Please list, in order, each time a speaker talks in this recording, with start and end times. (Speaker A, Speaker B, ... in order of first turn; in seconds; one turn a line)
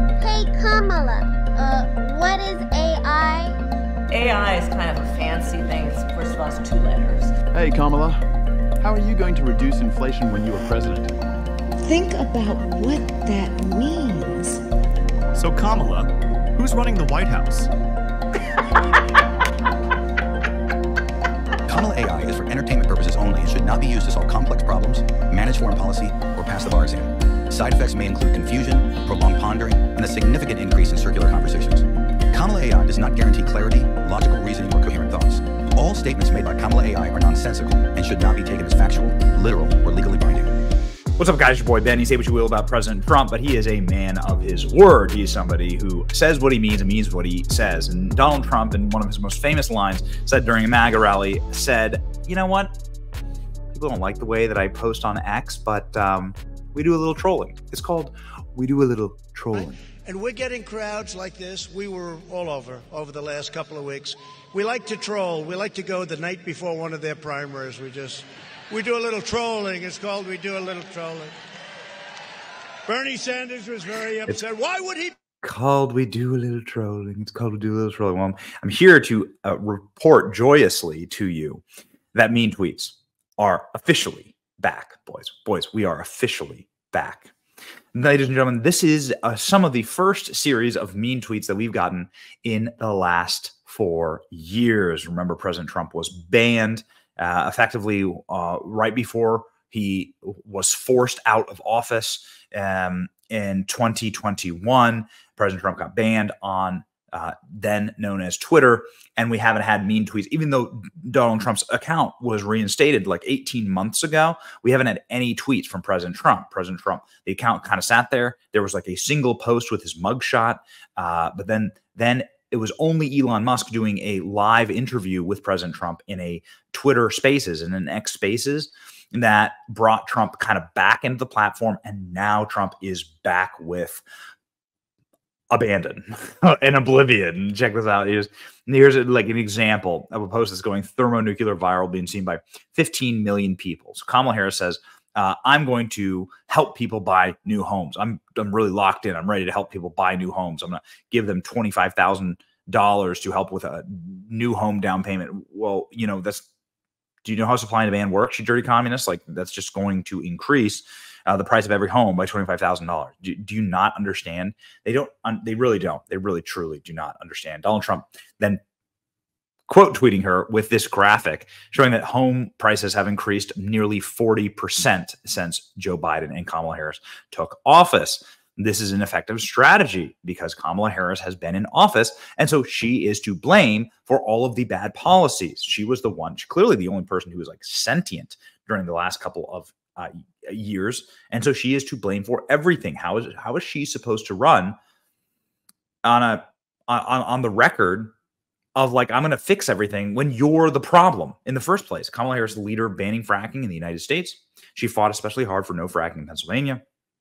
Speaker A: 0.2-3.5
Speaker B: 4.1-7.3
Speaker C: 7.5-8.2
Speaker C: 8.8-11.1
Speaker D: 11.8-14.5
Speaker E: 15.3-17.7
Speaker F: 21.7-40.6
Speaker G: 41.2-52.7
Speaker G: 53.7-59.8
Speaker H: 59.5-71.3
Speaker H: 72.9-75.2
Speaker G: 75.4-87.3
Speaker G: 88.0-134.0
Speaker G: 135.5-156.4
Speaker G: 157.2-168.6
Speaker G: 169.7-194.8
Speaker G: 196.0-198.1
Speaker G: 198.8-206.8